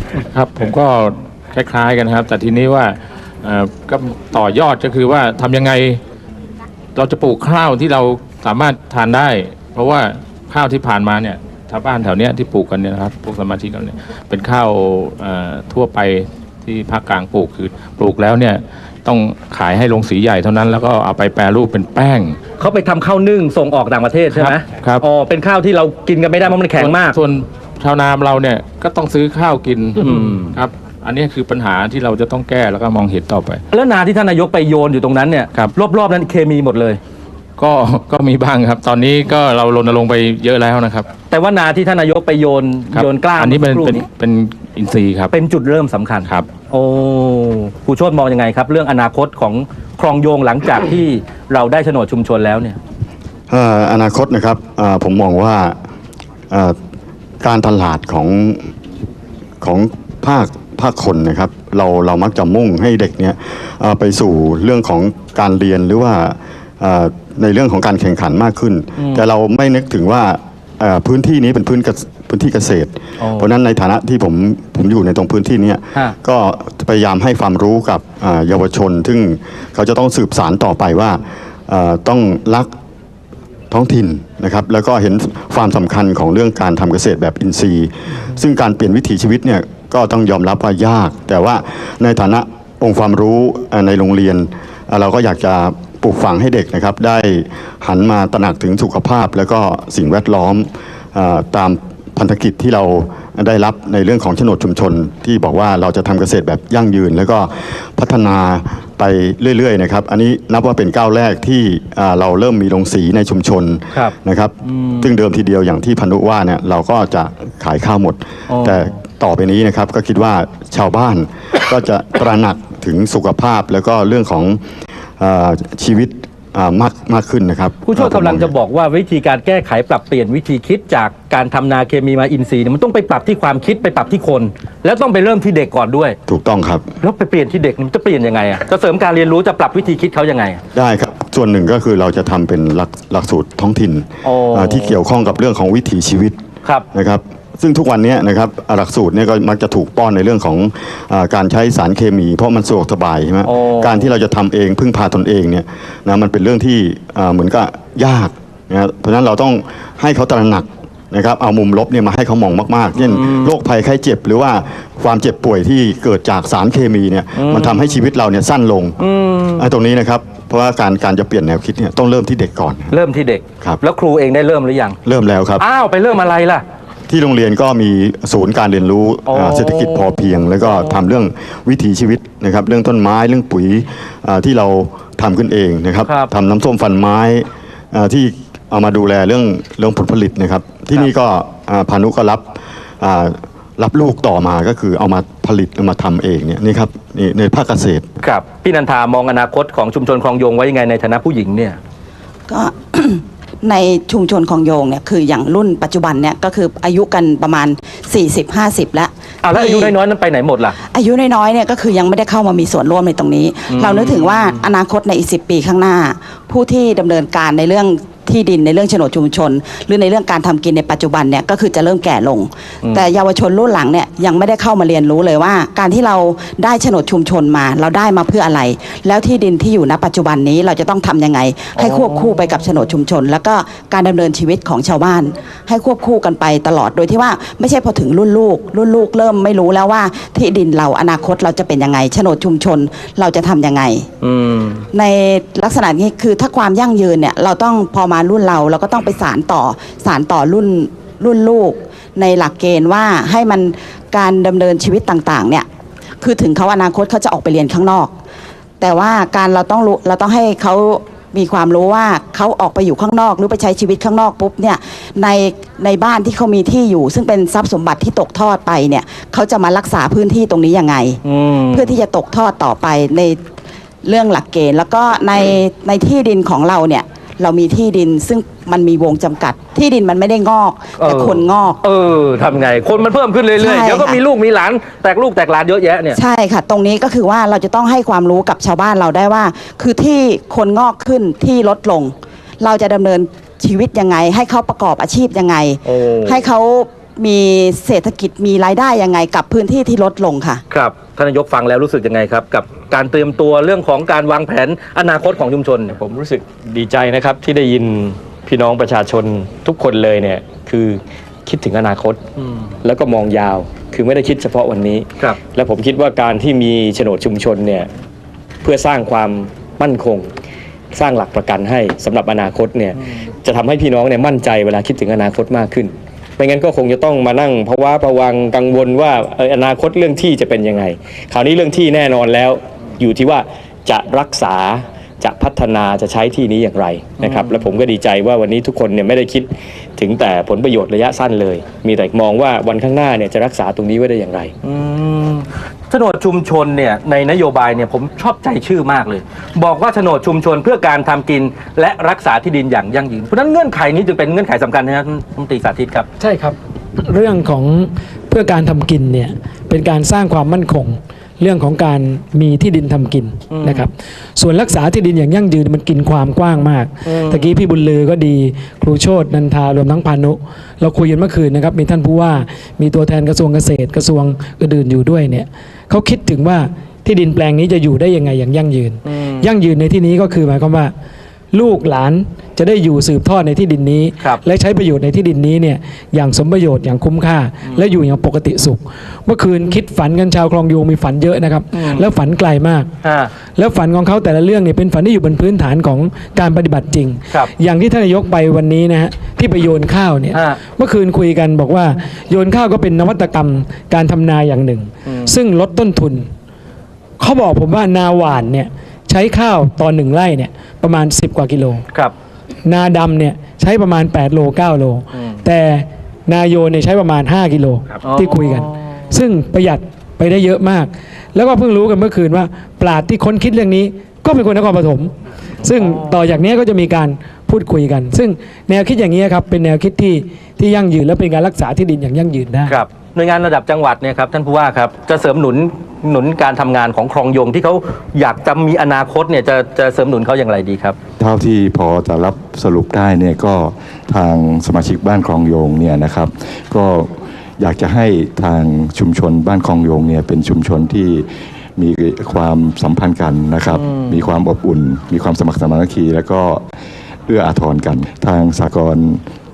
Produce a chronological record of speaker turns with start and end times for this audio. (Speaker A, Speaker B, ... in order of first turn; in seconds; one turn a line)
Speaker A: 0.3-6.0
Speaker A: 7.0-22.4
Speaker B: 22.6-27.2
Speaker A: 24.3-25.0
Speaker A: 26.6-33.6
Speaker B: 30.0-30.5
Speaker B: 33.7-37.0
Speaker A: 37.6-41.1
Speaker B: 41.3-44.0
Speaker A: 42.9-45.3
Speaker B: 45.3-52.8
Speaker C: 53.5-55.8
Speaker C: 56.5-56.7
Speaker C: 57.4-58.7
Speaker C: 59.6-82.7
Speaker B: 69.0-69.2
Speaker B: 73.2-73.5
Speaker C: 83.7-124.6
Speaker B: 114.7-115.1
Speaker B: 118.5-118.8
Speaker C: 125.2-128.5
Speaker B: 127.8-136.2
Speaker C: 136.3-136.8
Speaker B: 137.0-140.6
Speaker C: 140.7-146.3
Speaker B: 144.2-145.0
Speaker C: 146.9-169.0
Speaker B: 153.4-154.2
Speaker B: 163.1-163.5
Speaker B: 167.3-168.0
Speaker B: 169.0-169.7
Speaker C: 169.6-172.9
Speaker B: 172.9-175.0
Speaker C: 175.0-175.6
Speaker B: 175.6-176.6
Speaker C: 177.1-192.4
Speaker B: 179.2-180.9
Speaker B: 186.0-186.3
Speaker C: 193.0-198.1
Speaker B: 198.2-201.8
Speaker D: 202.5-209.9
Speaker B: 209.4-210.8
Speaker D: 210.9-244.1
Speaker B: 213.7-214.6
Speaker B: 231.7-232.3
Speaker B: 244.2-244.8
Speaker D: 244.9-255.7
Speaker D: 256.2-258.1
Speaker D: 258.8-271.2
Speaker B: 271.2-271.9
Speaker D: 271.7-273.4
Speaker D: 274.0-281.8
Speaker B: 281.0-286.2
Speaker D: 283.6-284.2
Speaker D: 286.1-300.6
Speaker B: 295.8-296.5
Speaker B: 300.7-305.9
Speaker E: 305.9-312.2
Speaker E: 312.8-317.9
Speaker E: 318.6-320.3
Speaker E: 320.9-344.5
Speaker B: 337.2-337.6
Speaker B: 344.6-356.1
Speaker F: 356.2-380.9
Speaker B: 363.5-363.9
Speaker B: 367.0-367.6
Speaker B: 379.1-379.5
Speaker F: 381.5-392.9
Speaker B: 391.7-392.1
Speaker B: 393.0-393.3
Speaker F: 393.6-406.3
Speaker B: 400.3-400.6
Speaker B: 405.1-405.3
Speaker F: 407.2-411.8
Speaker F: 412.6-432.8
Speaker B: 415.1-415.4
Speaker B: 418.0-418.7
Speaker B: 425.8-426.1
Speaker B: 432.7-441.0
Speaker G: 441.2-451.2
Speaker G: 451.8-456.6
Speaker B: 453.7-454.2
Speaker G: 457.3-459.2